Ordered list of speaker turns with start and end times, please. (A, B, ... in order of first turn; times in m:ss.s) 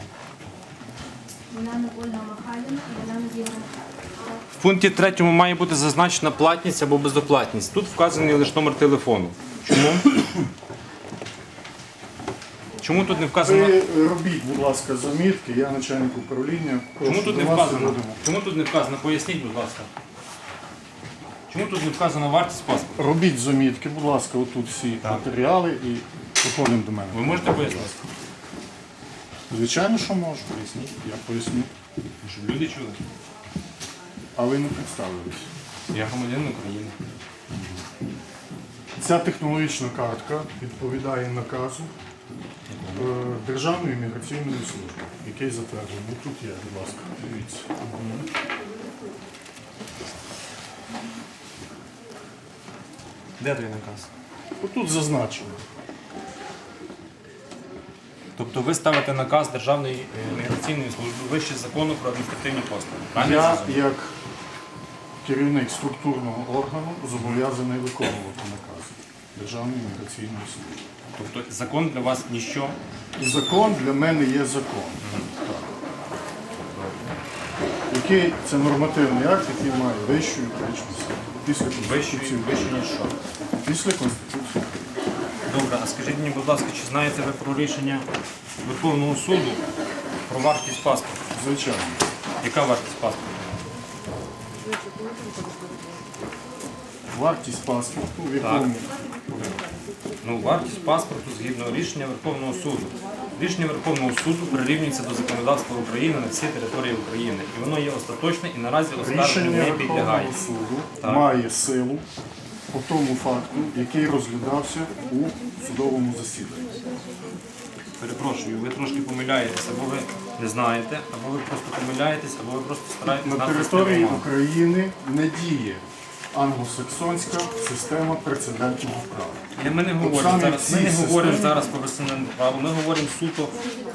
0:01.5-0:03.7 A
0:04.6-0:10.2 B
0:12.8-0:13.8 B
0:13.4-0:18.2 C
0:17.0-0:19.9 B
0:21.5-0:23.0 B
0:23.0-0:27.9 C
0:25.0-0:25.3 B
0:27.1-0:28.1 B
0:29.5-0:31.7 C
0:30.5-0:30.9 B
0:32.2-0:33.0 B
0:34.4-0:35.5 C
0:35.9-0:36.9 B
0:37.5-0:37.8 C
0:39.0-0:41.9 C
0:42.7-0:43.1 B
0:42.9-0:47.7 C
0:47.9-0:48.2 B
0:53.4-0:54.1 B
0:54.6-0:55.6 C
0:58.4-1:03.8 B
1:03.1-1:04.1 C
1:05.2-1:10.8 C
1:07.2-1:07.4 B
1:11.2-1:12.8 B
1:13.2-1:15.7 C
1:15.0-1:15.3 B
1:16.7-1:17.1 B
1:17.9-1:22.7 C
1:21.8-1:23.2 B
1:23.6-1:24.7 C
1:25.5-1:28.0 B
1:28.6-1:29.6 B
1:30.3-1:31.2 B
1:31.3-1:32.0 C
1:32.4-1:33.6 B
1:37.1-1:38.9 C
1:38.4-1:38.7 B
1:40.2-1:50.4 B
1:49.0-1:52.0 C
1:51.0-1:51.3 B
1:52.7-1:56.9 C
1:58.0-2:04.3 B
2:03.0-2:09.4 C
2:09.5-2:13.5 B
2:10.0-2:11.6 C